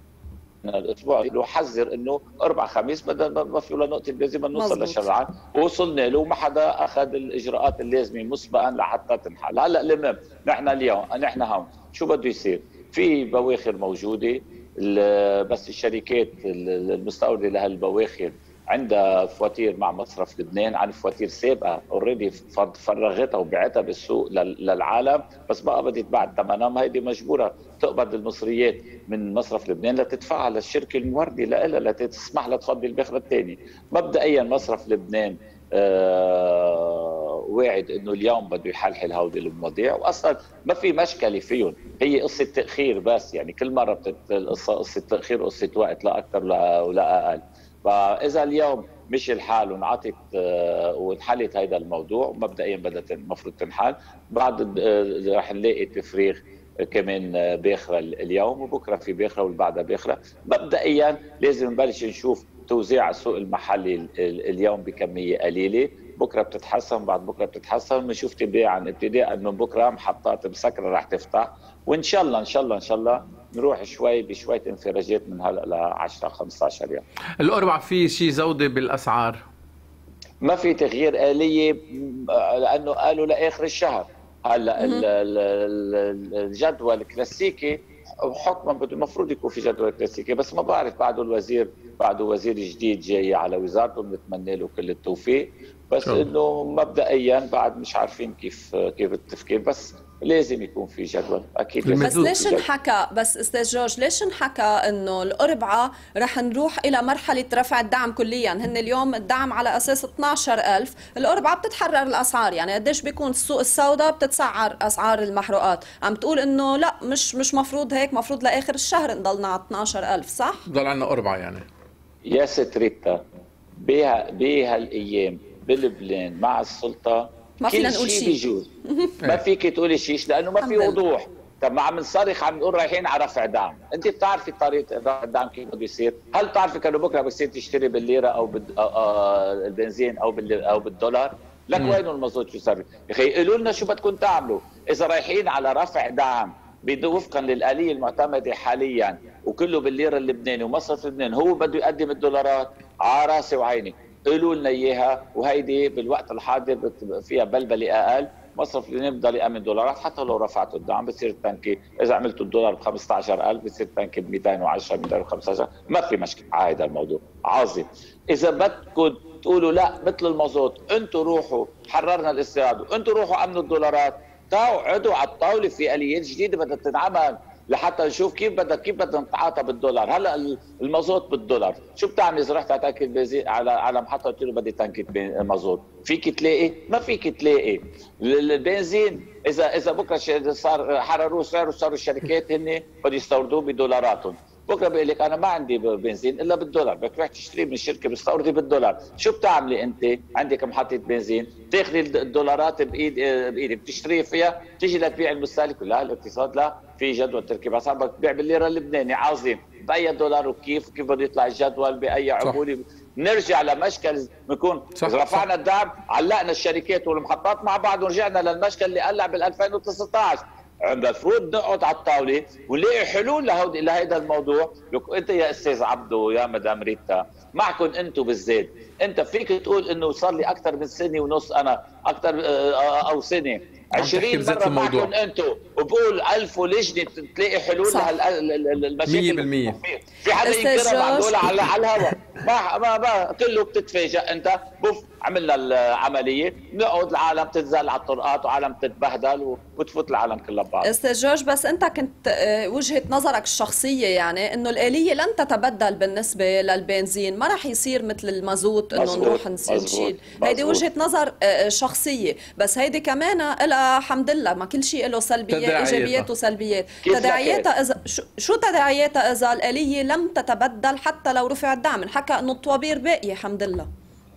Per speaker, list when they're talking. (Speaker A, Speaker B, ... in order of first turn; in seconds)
Speaker A: 0.6-77.0, 80.4-102.6, 122.2-123.2, 123.8-128.7, 129.2-250.9, 258.9-260.8, 267.0-267.7
Speaker B: 4.5-5.1, 84.8-85.1, 102.0-120.6, 127.6-129.2, 130.6-131.0, 240.4-241.6, 250.8-273.9
Speaker C: 77.4-79.4, 96.0-96.3, 101.8-102.4, 120.7-121.7, 215.0-215.4, 233.9-235.1, 239.1-239.8, 265.5-266.3